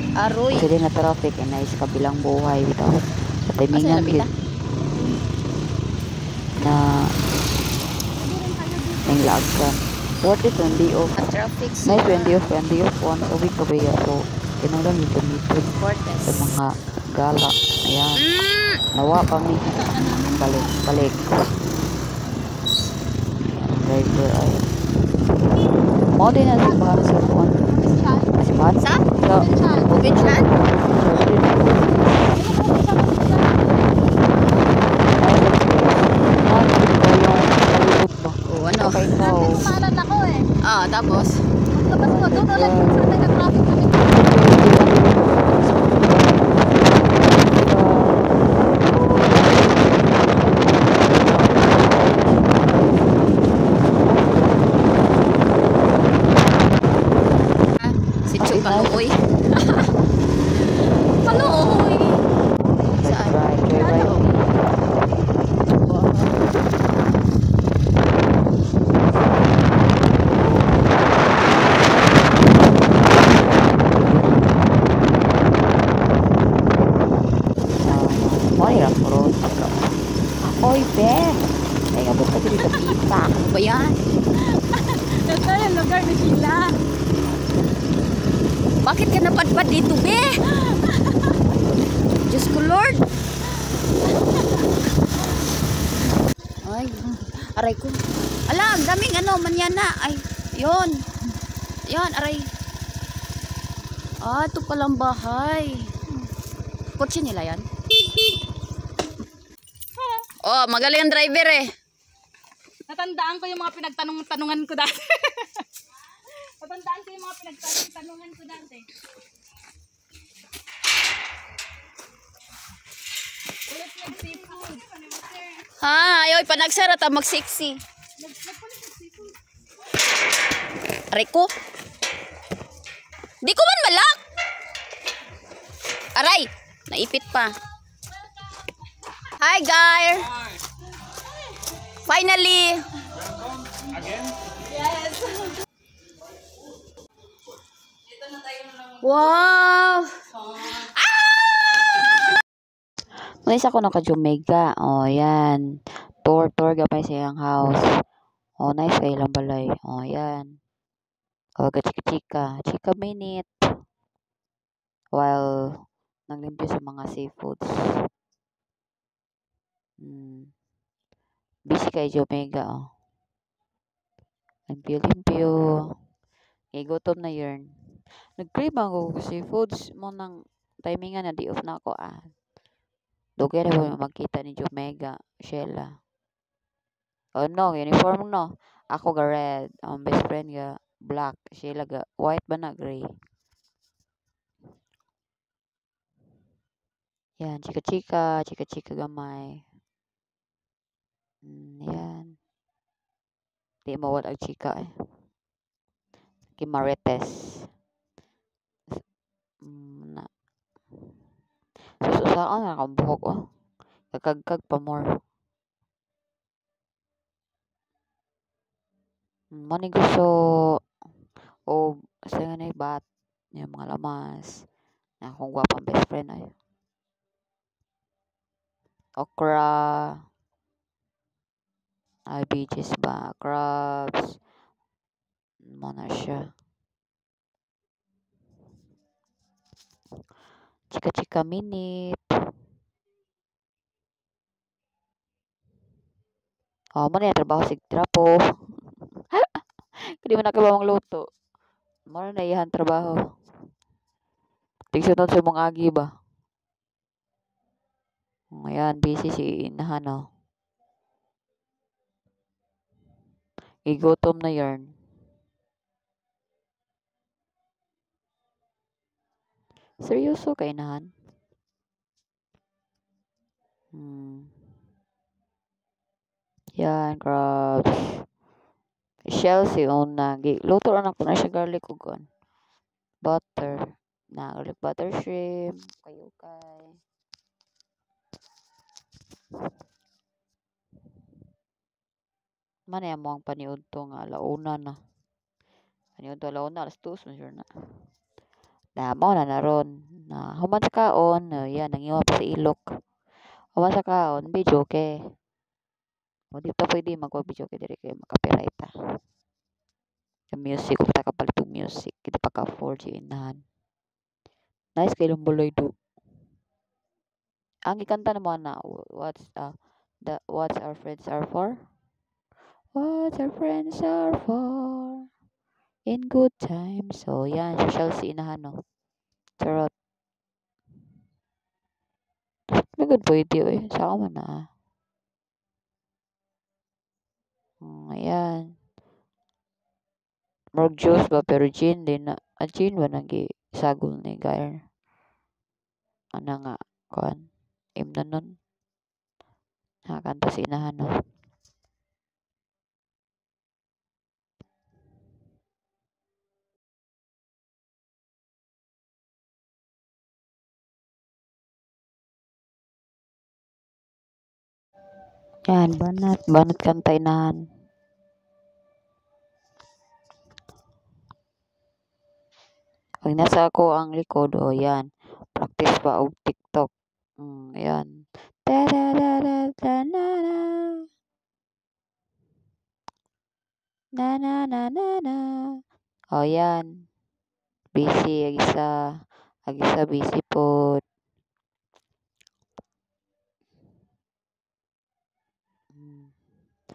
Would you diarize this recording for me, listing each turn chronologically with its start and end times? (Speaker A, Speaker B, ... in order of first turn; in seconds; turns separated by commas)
Speaker A: 0.2-0.7, Speaker B: 0.5-4.3, Speaker A: 3.7-4.3, Speaker B: 6.6-7.1, Speaker C: 8.3-8.8, Speaker B: 9.0-11.2, Speaker A: 11.2-12.4, Speaker B: 11.8-18.2, Speaker A: 15.8-16.3, Speaker A: 18.2-18.8, Speaker B: 18.9-21.3, Speaker B: 23.4-24.7, Speaker B: 26.1-27.6, Speaker B: 28.3-32.5, Speaker A: 29.9-30.5, Speaker C: 32.3-33.6, Speaker B: 35.2-39.8, Speaker A: 38.5-39.1, Speaker C: 39.3-40.5, Speaker A: 40.6-41.4, Speaker C: 41.8-43.8, Speaker B: 42.0-48.5, Speaker B: 49.1-52.6, Speaker A: 57.8-59.9, Speaker B: 58.4-59.1, Speaker A: 61.2-61.9, Speaker C: 61.2-62.1, Speaker B: 62.9-64.7, Speaker A: 63.0-63.3, Speaker A: 63.9-64.2, Speaker B: 73.3-74.5, Speaker B: 77.8-83.3, Speaker A: 82.5-84.0, Speaker C: 84.7-86.8, Speaker A: 88.8-90.6, Speaker C: 90.7-91.0, Speaker A: 92.2-93.1, Speaker A: 96.6-101.0, Speaker A: 101.9-102.5, Speaker A: 104.2-105.9, Speaker A: 107.0-107.7, Speaker A: 110.4-111.7, Speaker C: 112.9-115.6, Speaker C: 116.6-118.9, Speaker C: 123.7-125.6, Speaker A: 125.8-127.8, Speaker C: 128.2-129.3, Speaker A: 131.1-131.5, Speaker A: 133.4-134.2, Speaker A: 136.2-137.5, Speaker A: 139.3-140.3, Speaker A: 142.0-142.8, Speaker A: 148.8-151.5, Speaker B: 153.2-157.8, Speaker B: 158.6-160.6, Speaker B: 161.6-163.5, Speaker B: 165.1-168.1, Speaker B: 170.0-170.5, Speaker B: 171.7-172.9, Speaker B: 174.7-175.9, Speaker B: 176.7-182.3, Speaker B: 183.4-186.0, Speaker B: 187.3-193.2, Speaker B: 197.4-199.6, Speaker B: 201.4-202.4, Speaker B: 203.8-205.1, Speaker B: 206.6-207.7, Speaker B: 209.6-210.3, Speaker B: 211.8-213.5, Speaker B: 214.1-215.2, Speaker B: 219.5-220.8, Speaker B: 221.7-223.0, Speaker B: 223.6-224.7, Speaker B: 225.2-226.5, Speaker B: 229.2-230.2, Speaker B: 232.3-234.4, Speaker B: 235.7-236.5, Speaker B: 240.9-242.2, Speaker B: 247.0-251.2, Speaker B: 252.1-253.2, Speaker B: 254.9-256.1, Speaker B: 258.5-260.3, Speaker B: 263.9-265.0, Speaker B: 270.0-271.1, Speaker B: 273.9-274.6, Speaker B: 276.8-278.3, Speaker B: 279.3-282.3, Speaker B: 283.2-287.0, Speaker B: 292.9-295.0, Speaker B: 296.2-298.0, Speaker B: 299.0-303.0, Speaker B: 303.8-305.1, Speaker B: 306.5-308.9, Speaker B: 310.5-313.6, Speaker B: 315.0-315.9, Speaker B: 317.9-321.9, Speaker B: 322.9-325.3, Speaker B: 326.1-328.8, Speaker B: 329.6-329.9, Speaker B: 332.7-334.7, Speaker B: 337.8-338.7, Speaker B: 340.8-344.8, Speaker B: 346.4-348.6, Speaker B: 350.1-351.2, Speaker B: 365.7-367.6, Speaker B: 373.2-381.0, Speaker B: 384.2-385.8, Speaker B: 386.3-387.1, Speaker B: 387.9-391.0, Speaker B: 395.9-396.3